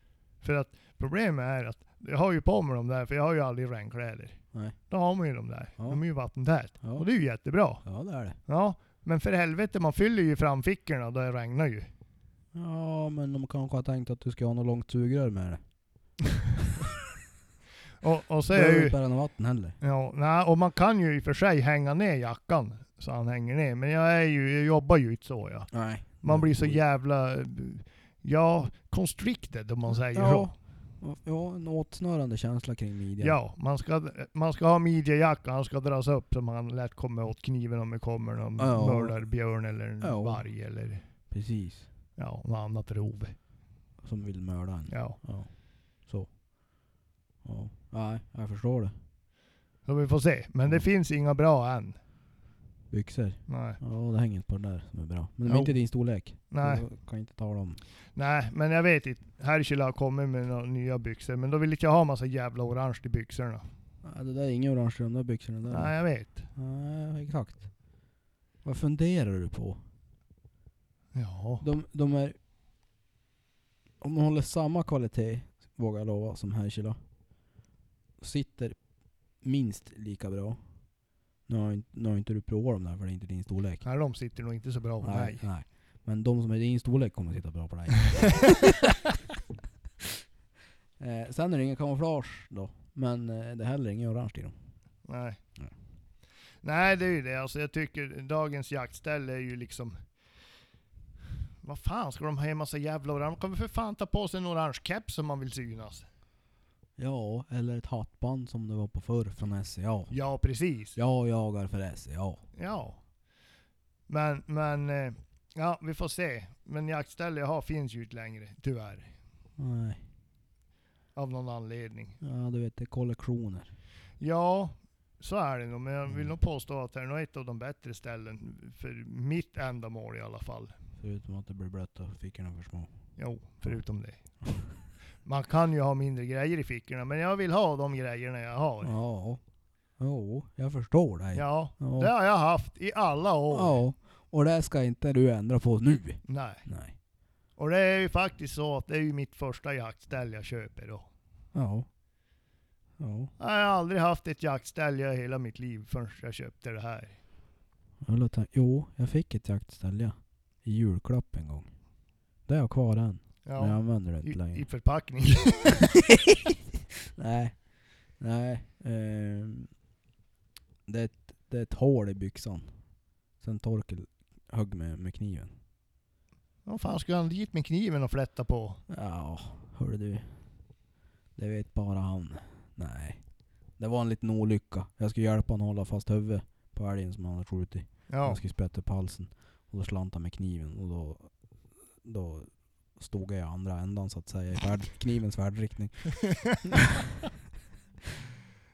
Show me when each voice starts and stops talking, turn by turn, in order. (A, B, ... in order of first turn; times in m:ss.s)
0:00.4-0:07.9 A
0:05.8-0:06.0 B
0:06.8-0:07.1 B
0:07.8-0:08.4 B
0:08.4-0:11.9 A
0:12.5-0:15.6 B
0:18.0-0:19.0 A
0:18.5-0:19.8 B
0:19.8-0:30.5 A
0:25.7-0:26.8 B
0:30.1-0:33.4 B
0:33.2-0:41.0 A
0:38.6-0:39.3 B
0:40.0-0:40.5 B
0:41.3-0:41.9 B
0:42.2-0:43.4 A
0:44.0-0:45.5 B
0:44.9-0:45.2 A
0:46.0-0:46.4 B
0:47.4-0:48.9 B
0:49.9-0:52.0 A
0:52.9-0:57.8 B
0:53.5-0:53.8 A
0:55.5-0:55.8 A
0:56.5-0:56.8 A
0:58.2-1:03.7 A
1:04.0-1:06.0 B
1:05.7-1:06.5 A
1:06.5-1:07.7 B
1:08.6-1:09.8 B
1:11.2-1:11.6 A
1:11.6-1:12.4 B
1:14.0-1:17.0 B
1:18.2-1:18.8 B
1:19.4-1:20.6 B
1:21.5-1:23.8 B
1:23.8-1:25.4 A
1:25.0-1:29.0 B
1:31.0-1:34.5 B
1:35.1-1:35.4 A
1:36.6-1:40.0 A
1:41.6-1:46.1 A
1:47.0-1:50.1 B
1:50.1-1:51.0 A
1:51.0-1:52.4 B
1:52.6-1:53.0 A
1:54.1-1:59.1 A
1:59.6-2:00.0 B
2:01.2-2:02.2 A
2:02.2-2:03.7 B
2:04.2-2:10.7 A
2:11.0-2:12.9 B
2:13.2-2:14.2 A
2:15.2-2:18.9 A
2:18.8-2:19.4 B
2:20.0-2:22.1 B
2:21.3-2:23.8 A
2:23.5-2:27.0 B
2:26.3-2:26.6 A
2:27.6-2:31.1 A
2:31.5-2:31.9 B
2:33.0-2:33.3 B
2:33.4-2:37.2 A
2:38.0-2:41.7 B
2:42.5-2:44.6 B
2:43.4-2:45.9 A
2:45.9-2:47.6 B
2:48.2-2:49.7 B
2:50.9-2:52.7 B
2:53.4-2:55.5 B
2:56.7-2:58.8 A
2:58.9-3:00.2 B
3:01.4-3:03.2 B
3:03.8-3:11.4 B
3:08.1-3:08.4 A
3:12.0-3:17.0 B